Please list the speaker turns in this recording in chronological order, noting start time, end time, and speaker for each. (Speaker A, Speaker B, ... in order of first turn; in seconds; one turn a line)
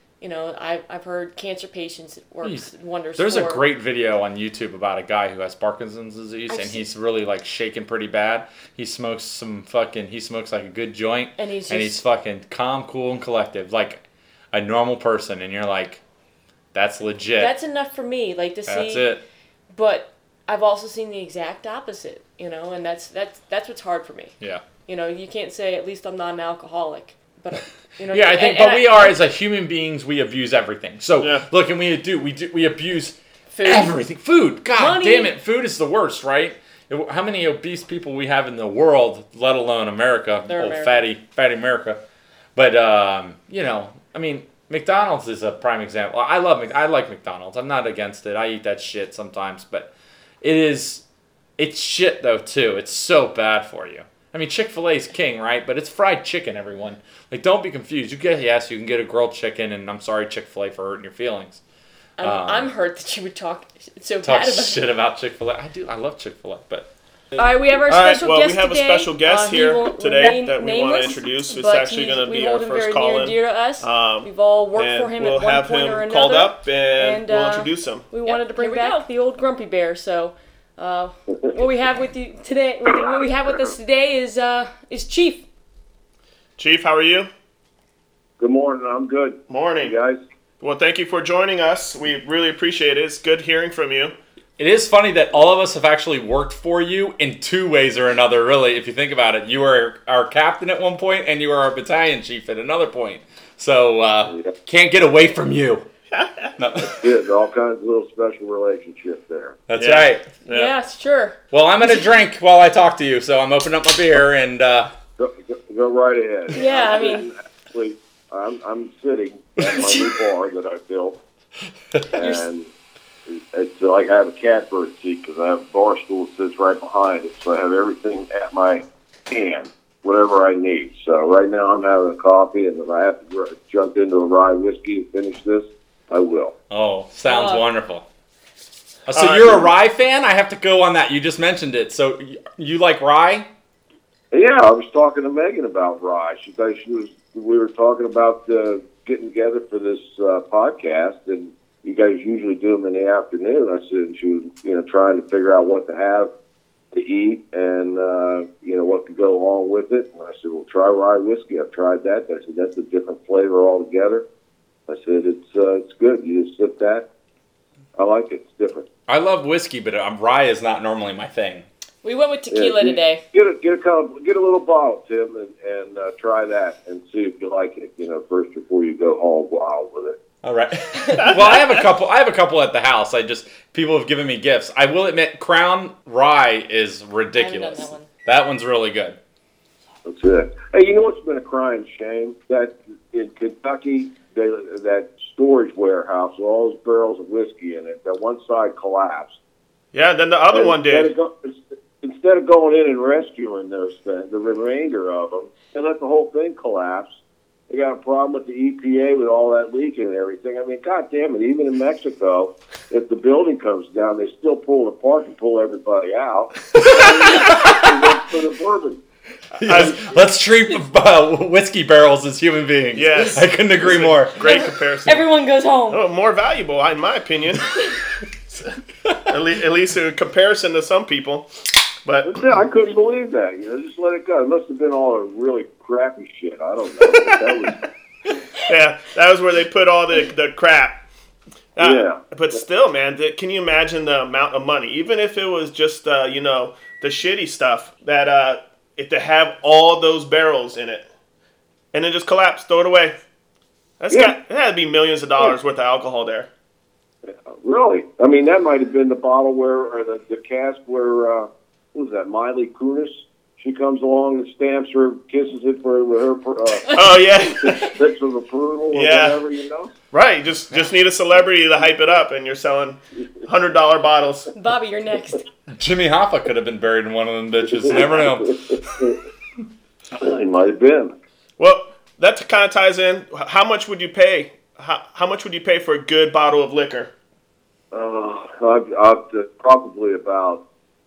Speaker A: 0.2-3.6
Speaker B: 2.4-16.0
Speaker A: 6.5-6.8
Speaker A: 11.4-12.0
Speaker B: 16.7-17.6
Speaker A: 17.4-19.1
Speaker B: 18.7-19.2
Speaker A: 19.7-24.4
Speaker A: 24.9-29.2
Speaker B: 28.1-42.0
Speaker C: 31.2-31.5
Speaker A: 33.5-33.9
Speaker A: 34.8-35.3
Speaker A: 40.5-41.0
Speaker B: 42.6-51.0
Speaker B: 51.6-61.6
Speaker A: 62.2-64.8
Speaker B: 62.2-62.7
Speaker B: 64.2-66.9
Speaker C: 67.4-78.1
Speaker A: 67.4-85.5
Speaker C: 86.6-87.3
Speaker D: 88.4-90.2
Speaker C: 89.5-90.0
Speaker C: 90.6-94.2
Speaker B: 94.6-105.8
Speaker C: 106.1-106.9
Speaker B: 106.6-107.0
Speaker D: 106.9-109.6
Speaker B: 109.7-110.3
Speaker C: 109.8-110.7
Speaker A: 110.5-111.4
Speaker B: 111.5-114.9
Speaker D: 115.2-121.2
Speaker A: 116.5-117.3
Speaker D: 122.1-122.7
Speaker A: 122.2-122.5
Speaker D: 123.3-136.6
Speaker B: 136.7-138.1
Speaker A: 137.3-137.7
Speaker B: 139.1-143.5
Speaker C: 139.1-139.7
Speaker D: 144.3-156.3
Speaker D: 156.9-164.2
Speaker D: 164.9-167.1
Speaker D: 168.0-168.9
Speaker B: 169.1-171.7
Speaker A: 172.0-173.2
Speaker D: 172.5-180.2
Speaker B: 180.4-189.2
Speaker C: 181.1-181.8
Speaker A: 187.3-188.1
Speaker D: 190.1-199.4
Speaker C: 199.9-201.1
Speaker D: 200.5-207.1
Speaker D: 207.7-219.0
Speaker B: 216.8-218.1
Speaker B: 219.6-224.4
Speaker C: 219.6-220.0
Speaker C: 222.9-225.3
Speaker A: 224.4-226.0
Speaker C: 225.9-227.8
Speaker C: 229.3-231.5
Speaker C: 232.1-232.5
Speaker D: 232.2-237.8
Speaker C: 238.6-241.0
Speaker C: 241.8-251.1
Speaker D: 241.8-242.6
Speaker C: 251.9-253.2
Speaker C: 254.0-256.5
Speaker D: 257.3-269.9
Speaker C: 266.9-268.0
Speaker C: 268.9-269.4
Speaker C: 270.1-274.5
Speaker A: 274.5-275.4
Speaker B: 275.7-279.1
Speaker D: 277.7-279.2
Speaker D: 280.1-281.1
Speaker C: 281.6-287.1
Speaker D: 287.9-290.6